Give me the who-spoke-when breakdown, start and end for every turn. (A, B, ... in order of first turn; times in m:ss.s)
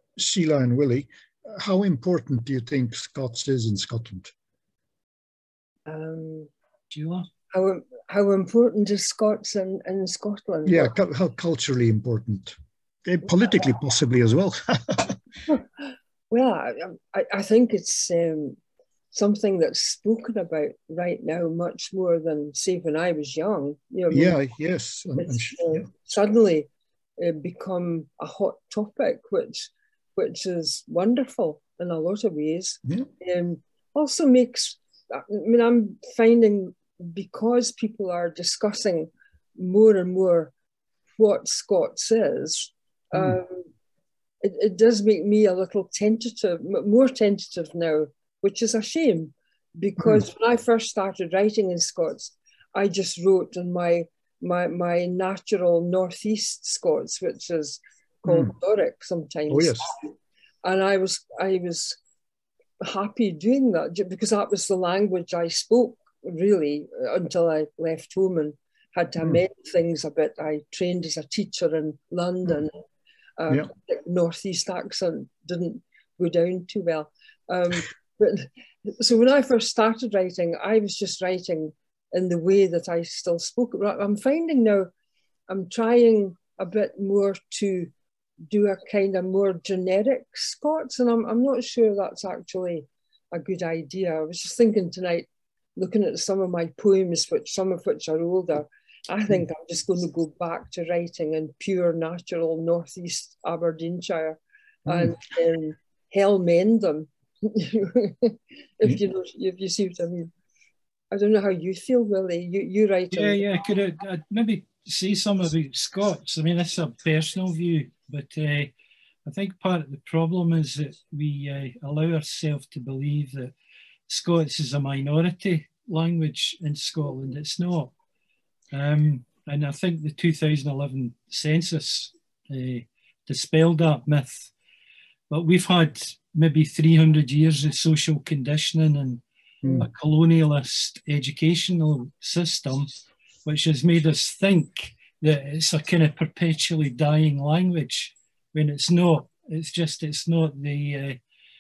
0:00.2-0:04.3 A
0:05.9-0:06.5 B
0:06.9-0:07.3 C
0:07.5-0:10.9 B
0:10.7-0:15.2 A
0:15.5-0:18.6 B
0:19.1-0:24.4 B
0:24.1-0:25.9 A
0:25.2-0:40.5 B
0:41.2-0:43.6 B
0:44.4-1:00.0 B
0:58.3-0:58.5 A
0:59.5-0:59.9 A
1:00.6-1:02.0 B
1:02.8-1:12.8 B
1:13.4-1:24.9 B
1:25.5-1:27.9 B
1:28.5-1:50.3 B
1:44.9-1:45.1 A
1:51.1-1:53.5 B
1:53.1-1:58.8 C
1:59.3-2:03.5 C
2:04.1-2:08.0 C
2:08.7-2:14.5 C
2:15.3-2:19.2 C
2:19.8-2:22.9 C
2:23.4-2:31.2 C